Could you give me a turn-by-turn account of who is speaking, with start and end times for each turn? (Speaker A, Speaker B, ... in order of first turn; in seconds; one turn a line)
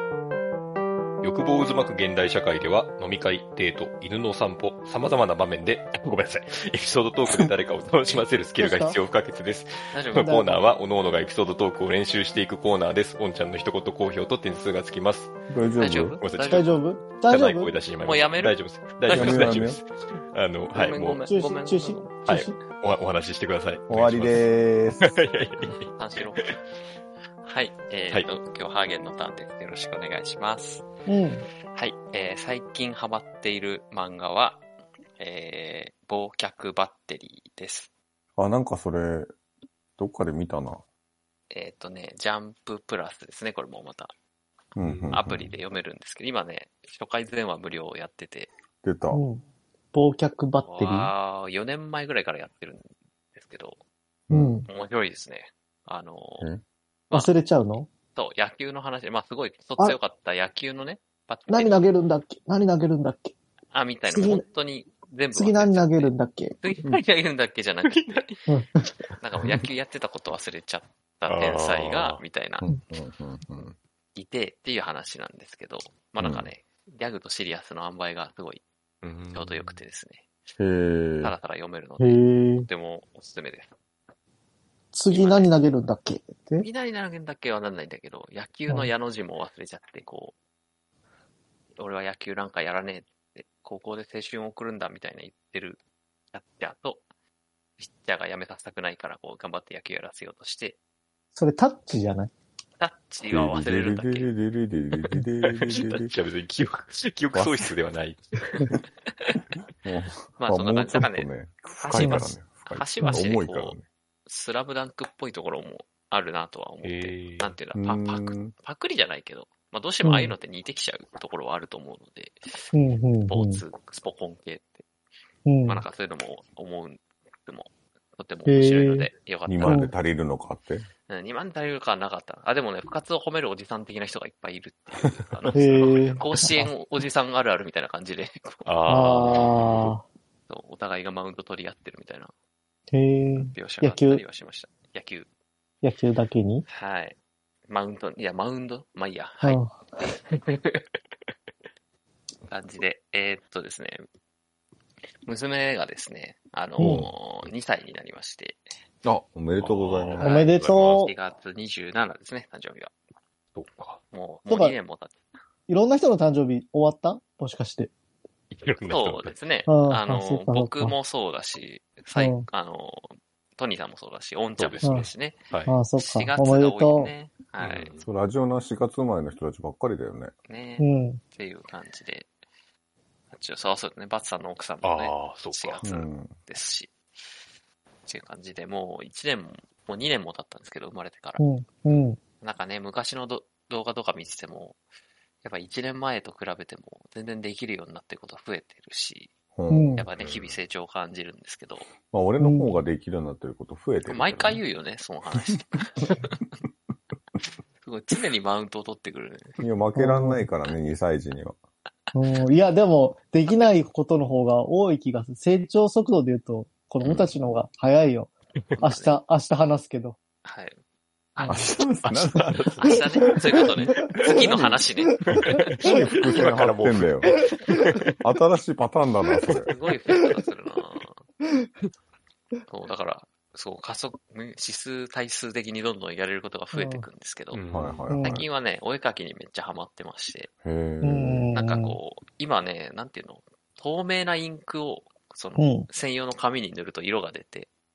Speaker A: 1.2-15.3
Speaker B: 8.6-9.0
Speaker C: 9.9-10.3
Speaker B: 10.2-10.5
Speaker D: 15.5-16.2
Speaker C: 15.8-16.7
Speaker A: 16.2-16.6
Speaker B: 16.5-17.8
Speaker A: 17.3-21.2
Speaker C: 18.0-19.6
Speaker D: 19.1-19.8
Speaker C: 20.7-22.1
Speaker B: 21.3-22.6
Speaker A: 22.2-24.4
Speaker D: 23.9-25.2
Speaker A: 25.0-25.9
Speaker C: 26.0-26.6
Speaker C: 27.4-30.9
Speaker B: 31.1-31.5
Speaker C: 31.8-34.6
Speaker C: 35.2-37.9
Speaker D: 38.4-39.3
Speaker D: 40.0-40.8
Speaker C: 41.5-44.1
Speaker D: 44.8-45.5
Speaker A: 44.8-45.4
Speaker C: 45.1-48.5
Speaker D: 48.8-49.2
Speaker B: 49.1-49.4
Speaker B: 49.9-51.1
Speaker C: 50.6-53.8
Speaker D: 54.3-54.6
Speaker B: 54.3-54.7
Speaker C: 54.7-56.5
Speaker B: 57.1-57.9
Speaker C: 58.1-61.8
Speaker B: 61.5-63.3
Speaker C: 63.7-68.4
Speaker B: 64.1-64.4
Speaker B: 65.3-66.5
Speaker A: 67.8-68.2
Speaker B: 68.5-68.8
Speaker C: 69.2-72.7
Speaker A: 71.3-72.2
Speaker D: 72.6-73.8
Speaker C: 74.2-78.6
Speaker D: 76.2-76.5
Speaker A: 79.0-79.8
Speaker C: 79.3-80.2
Speaker D: 80.6-81.3
Speaker C: 81.2-83.8
Speaker B: 82.0-82.7
Speaker B: 84.9-86.7
Speaker C: 85.1-85.5
Speaker C: 86.6-90.3
Speaker C: 91.8-95.8
Speaker C: 96.3-97.0
Speaker C: 97.8-100.8
Speaker B: 101.3-102.3
Speaker C: 102.8-104.3
Speaker D: 103.3-106.1
Speaker A: 105.5-108.7
Speaker D: 107.3-107.7
Speaker D: 109.8-113.8
Speaker C: 110.4-111.3
Speaker C: 111.8-122.4
Speaker B: 112.0-112.3
Speaker A: 116.8-117.5
Speaker D: 117.8-118.5
Speaker B: 120.0-120.3
Speaker B: 122.7-123.6
Speaker C: 123.3-124.8
Speaker B: 125.5-125.8
Speaker C: 125.7-129.9
Speaker B: 128.5-129.1
Speaker D: 129.5-130.9
Speaker B: 129.6-129.9
Speaker C: 131.1-138.7
Speaker B: 135.5-136.7
Speaker A: 138.7-139.9
Speaker B: 138.9-140.1
Speaker C: 140.5-142.3
Speaker B: 142.9-144.2
Speaker C: 143.3-145.3
Speaker B: 145.8-146.7
Speaker C: 146.7-147.2
Speaker C: 147.7-150.8
Speaker B: 149.4-149.8
Speaker C: 152.5-154.0
Speaker C: 155.2-158.6
Speaker B: 156.8-157.0
Speaker D: 156.8-157.1
Speaker D: 159.0-160.2
Speaker A: 159.6-160.7
Speaker B: 160.2-161.1
Speaker C: 160.2-162.9
Speaker A: 163.5-164.0
Speaker C: 164.1-165.2
Speaker B: 164.5-164.8
Speaker B: 165.7-167.9
Speaker A: 168.5-169.3
Speaker C: 168.8-175.5
Speaker B: 169.7-170.9
Speaker B: 172.2-172.5
Speaker A: 174.6-175.8
Speaker B: 174.8-175.1
Speaker B: 175.7-177.1
Speaker C: 176.0-177.9
Speaker A: 177.6-178.1
Speaker D: 178.0-180.3
Speaker C: 180.5-182.3
Speaker B: 180.8-181.2
Speaker C: 183.3-186.9
Speaker A: 184.8-185.8
Speaker D: 185.8-186.3
Speaker C: 188.1-191.4
Speaker B: 191.4-192.2
Speaker C: 192.4-194.8
Speaker C: 195.4-199.3
Speaker D: 199.6-200.0
Speaker B: 199.7-200.1
Speaker C: 200.0-201.9
Speaker A: 200.2-200.6
Speaker D: 202.1-204.6
Speaker B: 202.4-202.8
Speaker C: 204.1-206.4
Speaker C: 207.8-209.6
Speaker D: 209.6-211.6
Speaker B: 209.9-210.4
Speaker B: 212.1-220.2
Speaker C: 218.8-219.1
Speaker C: 220.4-220.8
Speaker C: 221.3-225.3
Speaker B: 221.4-221.7
Speaker D: 221.5-223.0
Speaker A: 222.1-223.3
Speaker B: 224.1-224.3
Speaker D: 224.2-224.8
Speaker B: 225.1-226.2
Speaker A: 225.3-228.1
Speaker D: 225.8-227.3
Speaker D: 228.2-229.7
Speaker C: 229.7-231.2
Speaker C: 232.7-237.6
Speaker B: 236.7-237.1
Speaker A: 237.5-238.1
Speaker D: 237.7-238.4
Speaker B: 238.1-238.4
Speaker C: 238.2-240.5
Speaker D: 240.6-241.5
Speaker B: 241.0-242.0
Speaker C: 241.5-247.7
Speaker B: 245.6-245.9